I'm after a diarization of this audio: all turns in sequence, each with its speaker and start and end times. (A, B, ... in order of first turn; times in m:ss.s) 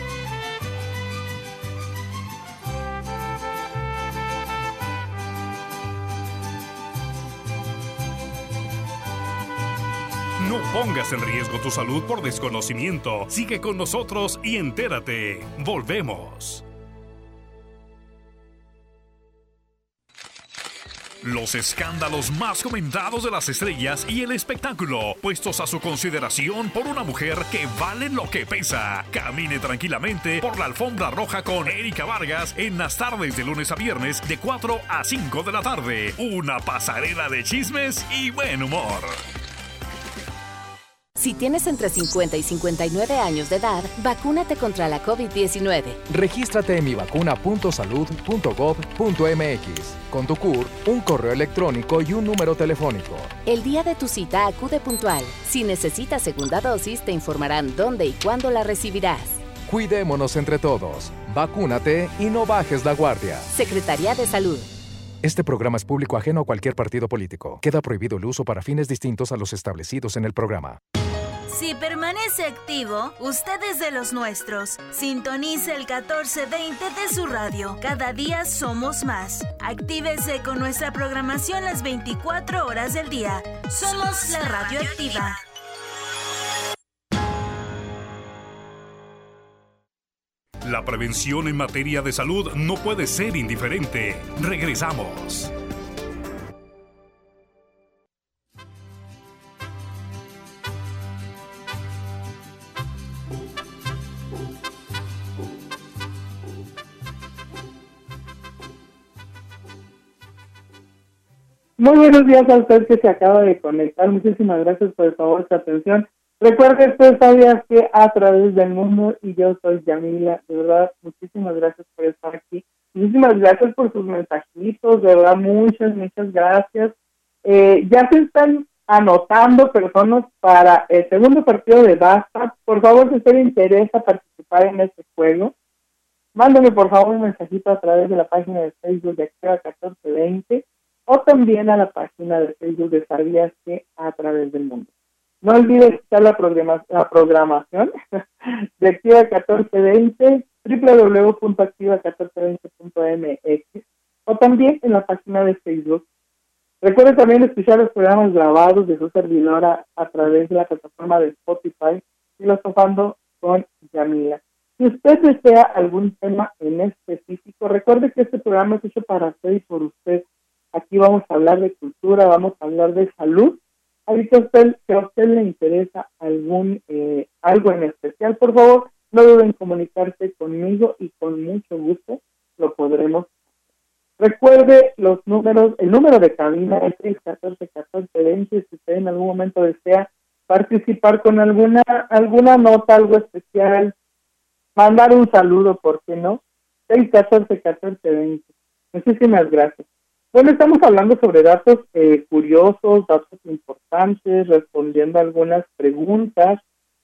0:10.4-0:16.6 A
0:21.2-0:39.2 A
0:41.2-0:46.0 B
0:46.1-0:53.4 C
0:53.5-0:59.5 B
0:59.6-1:03.5 C
1:03.5-1:04.7 B
1:05.2-1:10.8 C
1:11.5-1:25.4 D
1:30.6-1:35.5 A
1:51.8-2:06.9 E
2:07.4-2:15.5 E
2:16.4-2:24.9 E
2:25.4-2:36.0 E
2:36.8-3:03.3 E
3:04.2-3:13.9 E
3:14.8-3:26.6 E